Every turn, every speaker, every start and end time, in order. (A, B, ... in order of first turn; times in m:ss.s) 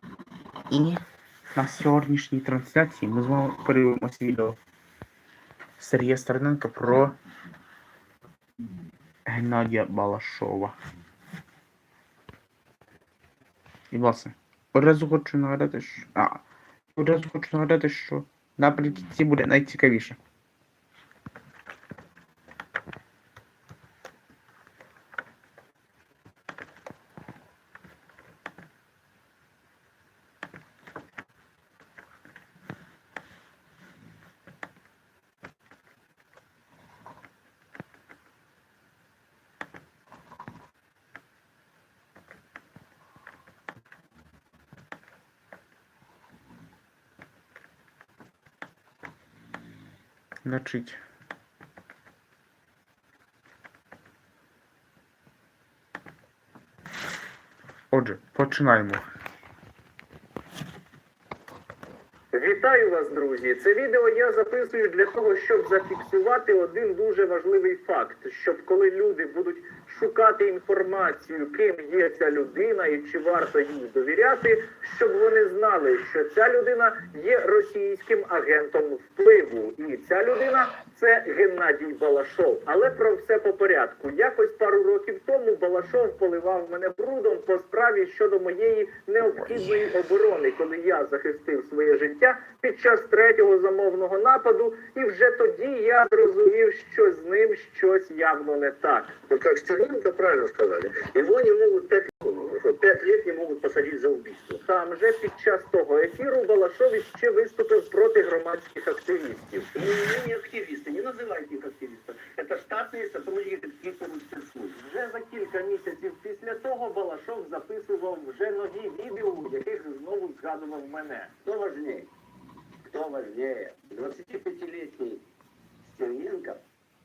0:00.7-0:01.0 A
0:01.5-0:04.6 A
0:05.8-0:07.2 A
0:09.3-0:10.8 A
0:13.9-0:16.4 A
0:17.0-0:20.2 A
0:50.4-0:51.0 A
0:57.9-0:59.0 A
1:02.3-1:39.2 B
1:39.3-1:44.6 C
1:44.7-1:49.7 B
1:49.7-1:54.8 C
1:54.8-2:01.3 B
2:01.4-2:02.1 C
2:02.9-2:05.2 C
2:05.9-2:06.6 C